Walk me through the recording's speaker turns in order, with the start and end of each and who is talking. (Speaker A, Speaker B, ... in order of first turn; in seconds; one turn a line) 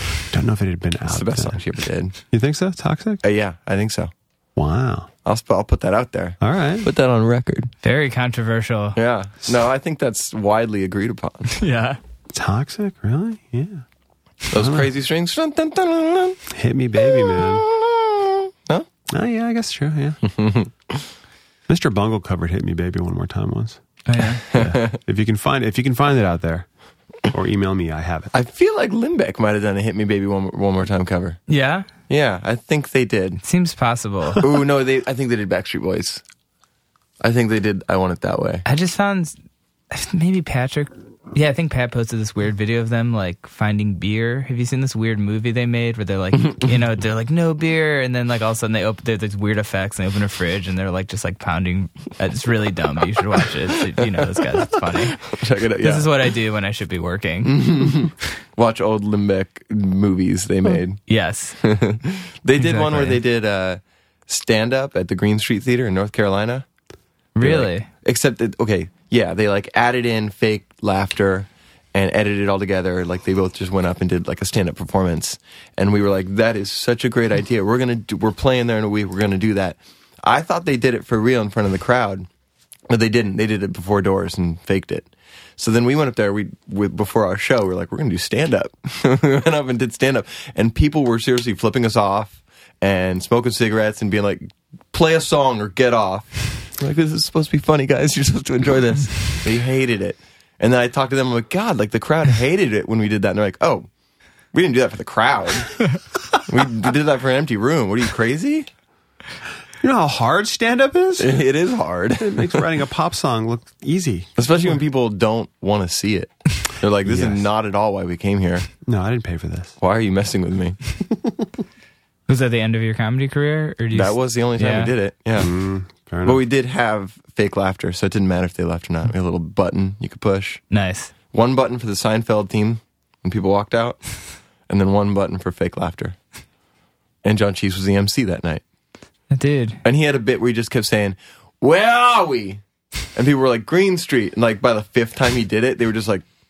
Speaker A: 0.3-1.6
Speaker B: 1.1-2.1
Speaker A: 2.3-3.2
Speaker B: 3.2-4.1
Speaker A: 4.5-5.1
Speaker B: 5.2-7.7
Speaker A: 6.4-6.9
Speaker C: 7.8-9.0
Speaker B: 8.9-11.5
Speaker C: 11.6-12.0
Speaker A: 12.3-13.8
Speaker B: 14.5-16.4
Speaker A: 14.5-14.9
Speaker A: 16.5-17.6
Speaker B: 17.0-18.9
Speaker A: 19.1-20.2
Speaker B: 20.3-21.0
Speaker A: 21.7-23.8
Speaker C: 24.1-24.4
Speaker A: 24.5-26.6
Speaker B: 24.5-25.0
Speaker A: 27.3-28.3
Speaker B: 28.3-31.4
Speaker C: 31.5-31.9
Speaker B: 32.1-33.4
Speaker C: 33.4-34.5
Speaker B: 34.4-36.2
Speaker B: 37.2-38.6
Speaker C: 38.6-39.4
Speaker C: 39.9-57.6
Speaker B: 55.1-56.1
Speaker B: 57.4-61.0
Speaker C: 61.0-61.6
Speaker B: 61.6-66.7
Speaker C: 62.6-63.2
Speaker C: 67.3-67.9
Speaker B: 67.4-82.3
Speaker B: 82.9-103.9
Speaker B: 104.5-105.8
Speaker B: 106.4-108.7
Speaker A: 109.8-111.4
Speaker B: 111.2-112.6
Speaker A: 112.2-114.3
Speaker B: 114.4-118.7
Speaker A: 117.0-117.4
Speaker A: 118.8-119.7
Speaker B: 119.8-120.8
Speaker C: 122.3-124.9
Speaker B: 123.9-125.5
Speaker A: 125.4-126.4
Speaker B: 126.2-130.6
Speaker C: 130.7-131.1
Speaker B: 131.3-134.0
Speaker B: 134.7-136.2
Speaker B: 137.2-138.6
Speaker C: 139.3-139.8
Speaker B: 139.8-142.6
Speaker B: 143.1-146.2